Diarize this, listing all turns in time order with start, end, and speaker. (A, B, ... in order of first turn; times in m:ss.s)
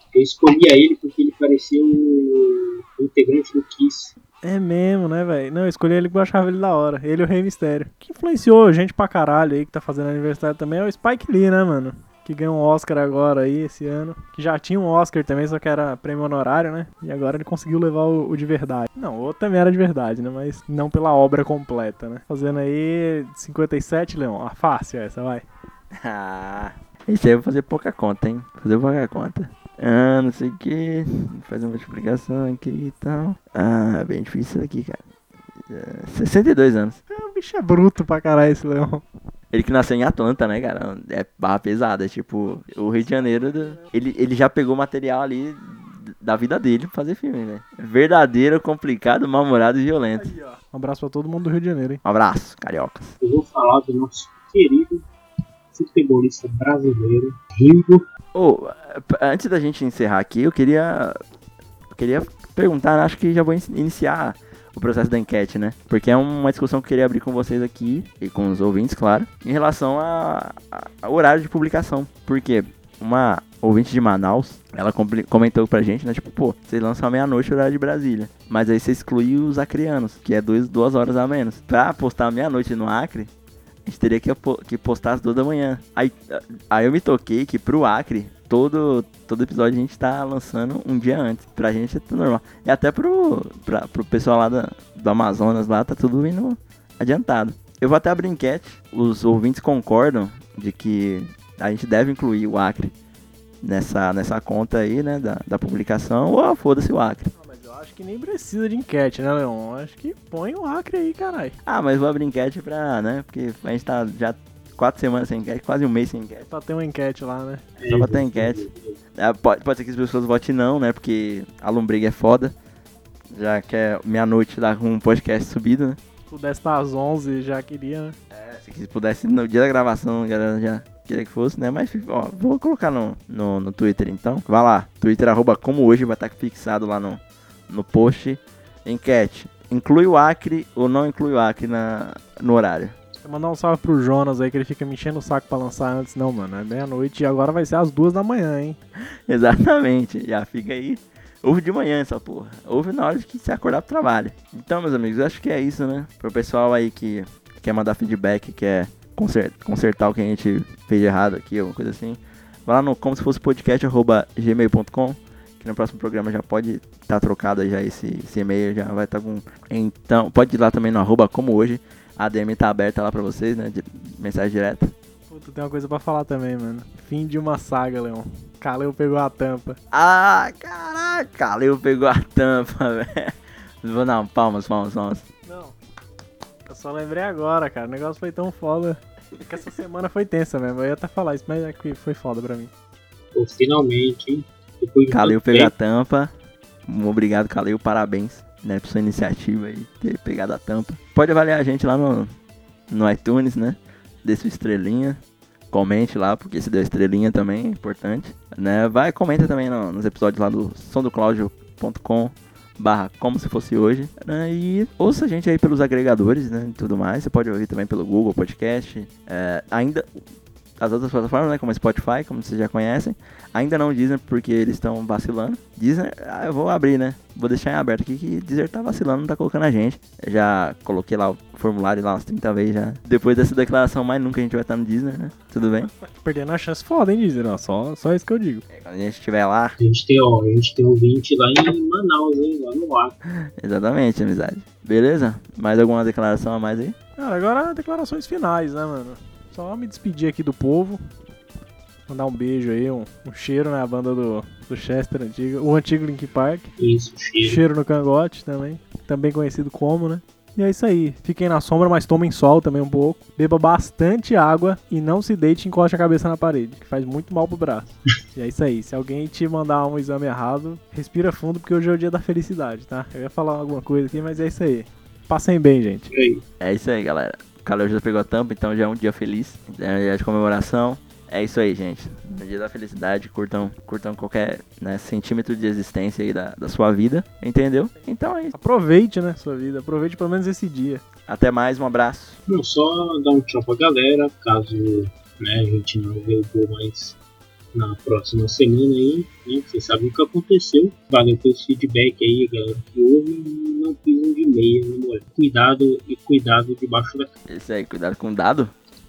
0:00.1-0:04.1 A
0:04.4-0:25.4 B
0:25.9-0:35.0 C
0:35.7-0:37.0 C
0:37.1-0:39.0 B
0:39.5-0:50.3 C
0:43.1-0:43.9 B
0:50.2-0:52.0 B
0:52.0-0:53.1 C
0:53.2-0:55.0 A
0:55.7-0:58.1 A
0:58.3-1:01.2 C
1:01.9-1:23.3 C
1:23.9-1:42.9 C
1:43.6-1:47.3 C
1:47.4-1:51.6 B
1:51.6-1:56.5 C
1:56.4-1:57.7 B
1:57.8-1:59.0 A
1:57.8-1:58.6 C
1:59.2-2:02.5 C
2:03.3-2:06.0 C
2:06.3-2:08.2 B
2:08.3-2:23.0 C
2:23.2-2:28.8 B
2:29.3-2:54.9 C
2:55.3-2:59.8 B
2:59.9-3:05.3 C
3:05.5-3:05.8 B
3:06.7-3:12.7 B
3:13.3-3:15.7 A
3:15.1-3:16.3 C
3:16.9-3:22.3 C
3:22.9-3:25.2 C
3:25.7-3:40.1 C
3:40.8-3:55.9 C
3:56.2-3:58.6 B
3:58.7-3:59.8 C
3:59.8-4:03.1 A
4:03.3-4:07.0 C
4:07.2-4:11.0 B
4:12.1-4:16.7 B
4:16.8-4:17.6 A
4:17.4-4:36.1 B
4:36.1-4:36.4 A
4:36.6-4:48.6 C
4:48.5-4:51.0 B
4:51.3-4:52.4 C
4:52.5-4:57.2 A
4:57.7-5:07.3 A
5:07.5-5:08.7 C